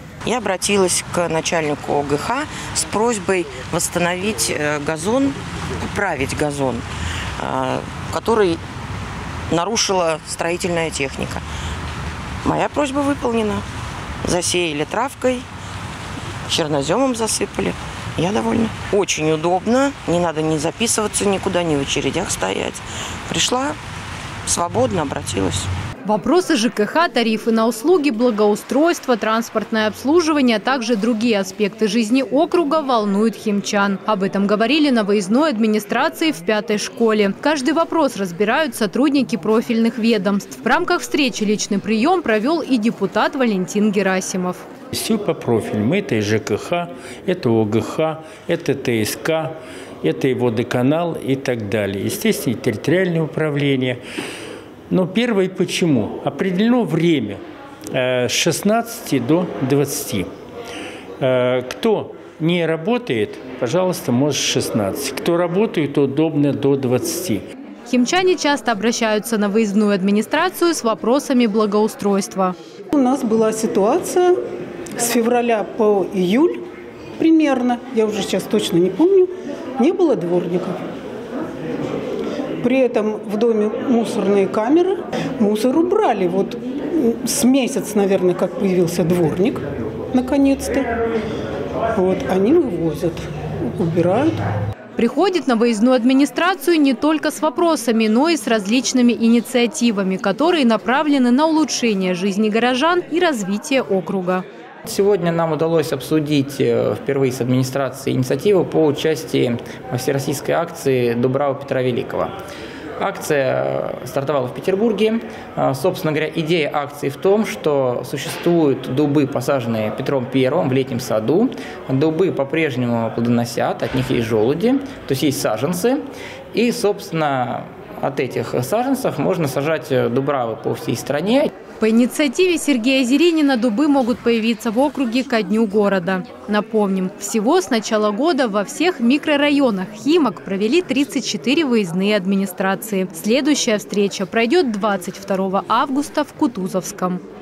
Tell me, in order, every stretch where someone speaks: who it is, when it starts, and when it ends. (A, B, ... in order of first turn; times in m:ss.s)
0:00.3-0:06.8 A
0:07.4-0:08.6 A
0:09.5-0:11.4 A
0:12.4-0:13.6 A
0:14.2-0:15.4 A
0:16.5-0:23.8 A
0:24.5-0:25.7 A
0:26.0-0:44.6 B
0:44.9-0:54.0 C
0:54.9-0:57.4 C
0:57.9-1:00.3 C
1:01.2-1:07.4 C
1:07.9-1:12.6 B
1:12.9-1:14.4 D
1:15.0-1:16.6 D
1:17.2-1:20.8 D
1:22.6-1:30.9 D
1:32.0-1:33.2 D
1:33.8-1:34.4 D
1:35.0-1:44.4 B
1:44.9-1:52.3 E
1:53.0-2:06.0 E
2:06.5-2:11.5 E
2:11.8-2:27.2 B